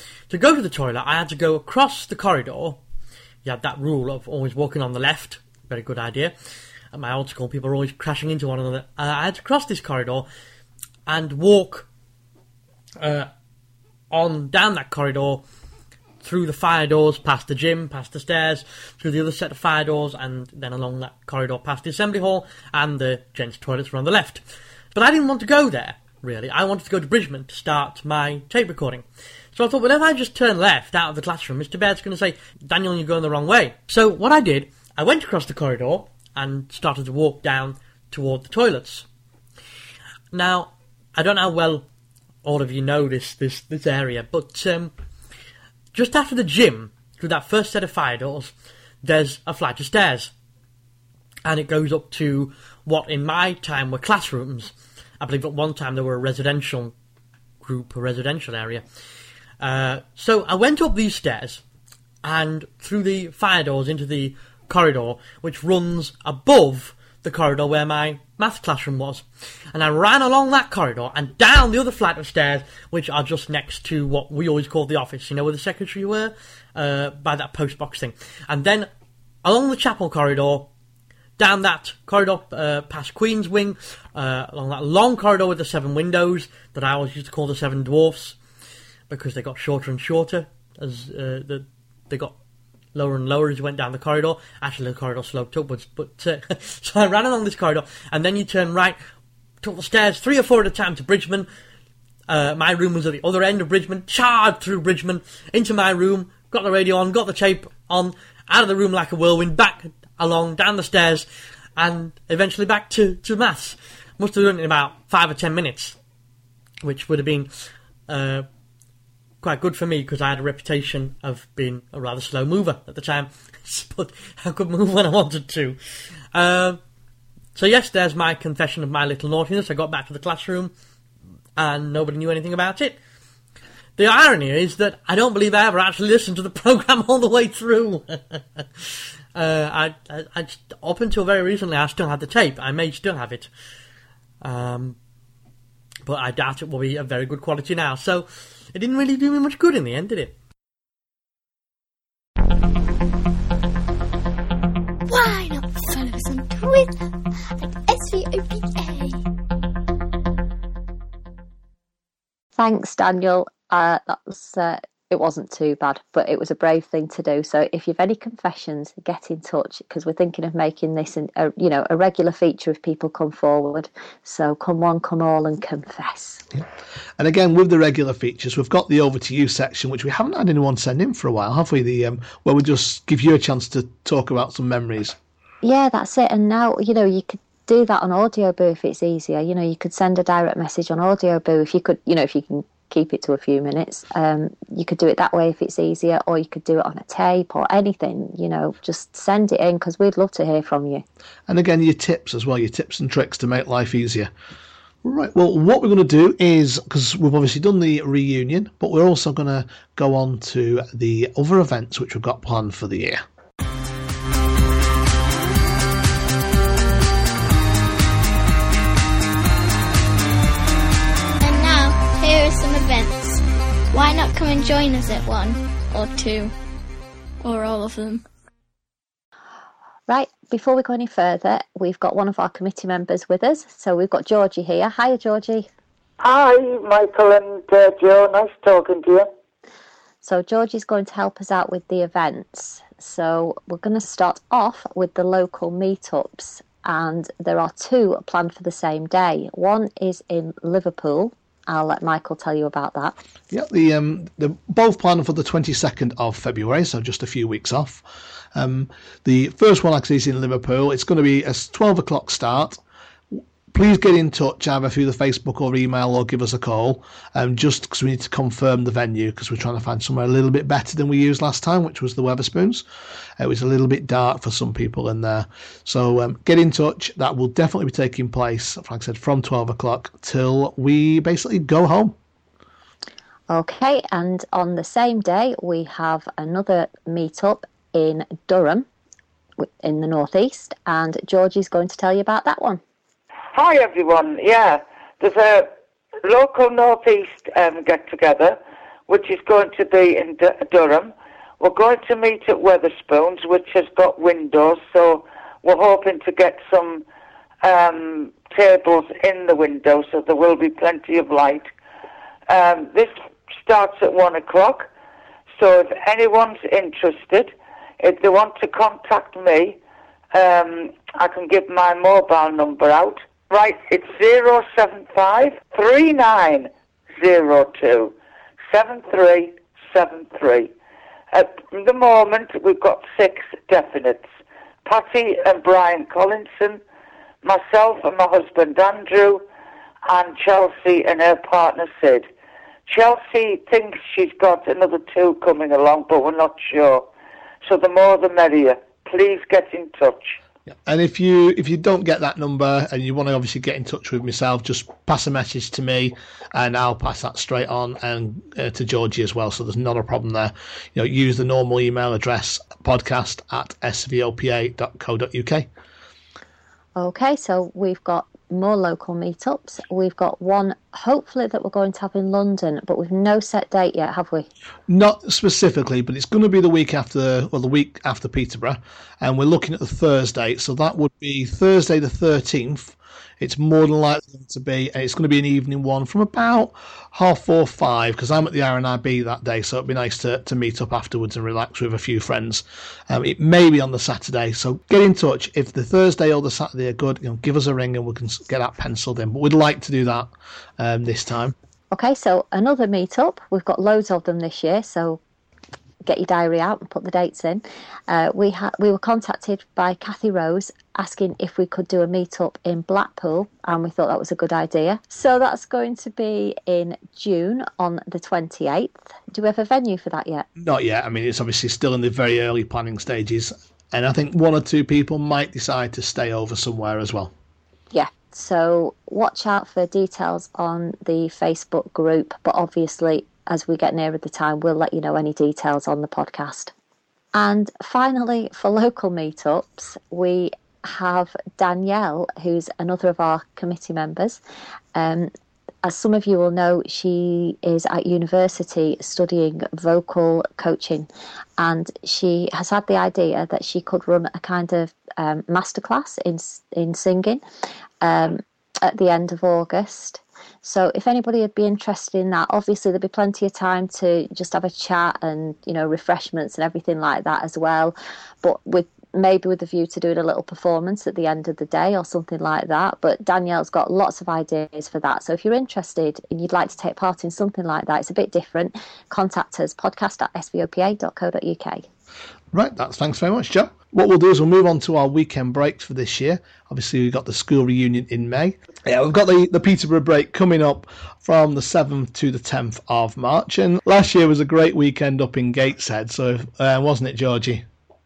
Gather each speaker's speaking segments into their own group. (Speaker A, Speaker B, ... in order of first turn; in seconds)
Speaker A: 0.3-2.8, 3.4-6.3, 6.9-10.3, 11.1-11.9, 13.0-13.3, 14.1-15.4, 16.2-39.1, 40.3-41.9, 42.4-44.9, 45.9-50.3, 51.5-56.9, 57.6-58.8, 59.6-61.6, 62.2-78.9, 79.4-80.7, 81.4-88.4, 89.1-92.4, 92.9-99.0, 99.6-101.5, 102.3-116.0, 116.8-118.5, 119.4-125.8, 126.3-126.8, 127.5-130.7, 131.6-133.0, 133.9-143.5, 144.4-145.0, 146.1-150.3
Speaker B: 155.1-157.0, 157.6-159.2, 221.4-223.4, 223.9-226.5, 227.4-228.2
Speaker C: 162.6-176.4, 185.6-201.0, 230.1-235.7, 240.2-253.2, 283.5-288.9, 289.6-292.8, 366.9-374.5, 401.9-405.2, 406.1-420.4, 427.9-436.7, 437.3-444.4, 444.9-445.3, 445.8-457.4, 458.0-481.8
Speaker D: 177.2-185.2, 201.5-204.3, 205.0-213.2, 253.5-262.8, 263.3-272.8, 273.4-282.1, 350.7-365.7, 374.9-401.6, 420.6-427.3, 482.5-497.6
Speaker E: 236.2-239.3, 293.5-295.7, 296.2-307.1, 307.6-311.7, 312.5-314.9, 315.6-319.8, 320.3-328.1, 328.7-330.7, 331.3-334.3, 334.8-336.8, 337.4-339.4, 340.1-342.3, 342.9-347.1, 347.6-350.4